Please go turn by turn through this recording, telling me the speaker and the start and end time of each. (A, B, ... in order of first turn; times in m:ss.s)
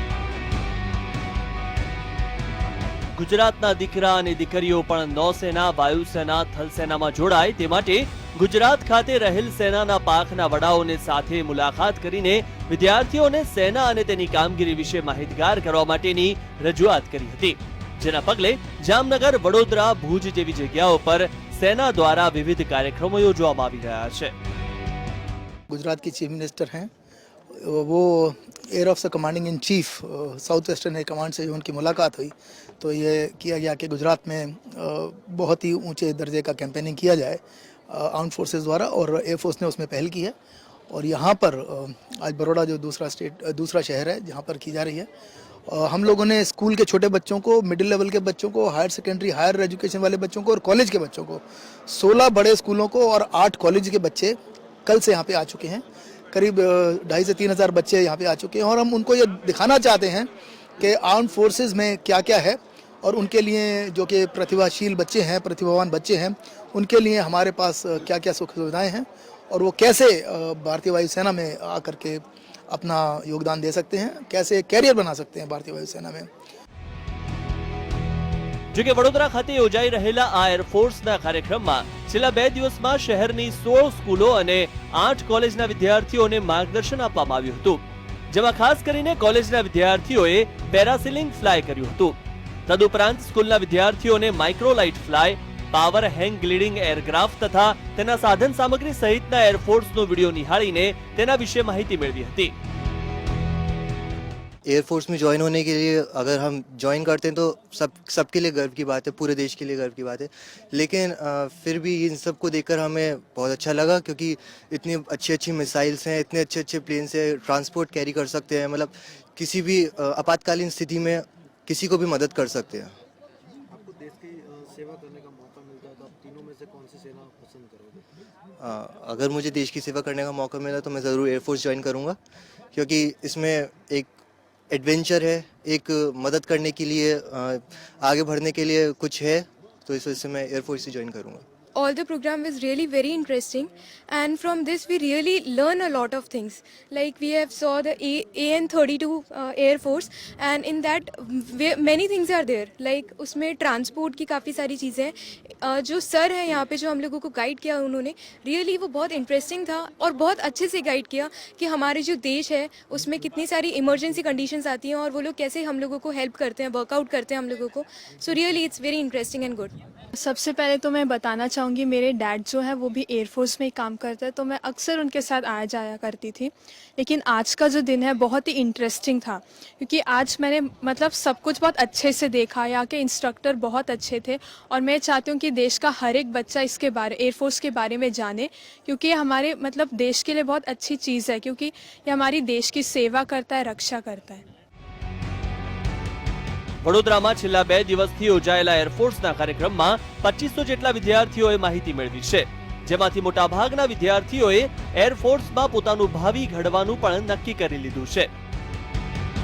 0:03.2-0:24.3 A
0:25.7-0:26.9 B
0:27.5-0:40.4 B
0:40.9-0:45.1 B
0:45.7-1:16.3 B
1:18.7-1:32.2 A
1:32.7-1:42.5 A
1:44.6-2:03.0 C
2:03.8-2:08.0 D
2:08.6-2:12.2 C
2:12.7-2:14.1 C
2:14.7-2:21.4 C
2:21.8-2:49.7 E
2:50.2-3:14.4 F
3:16.8-3:28.3 A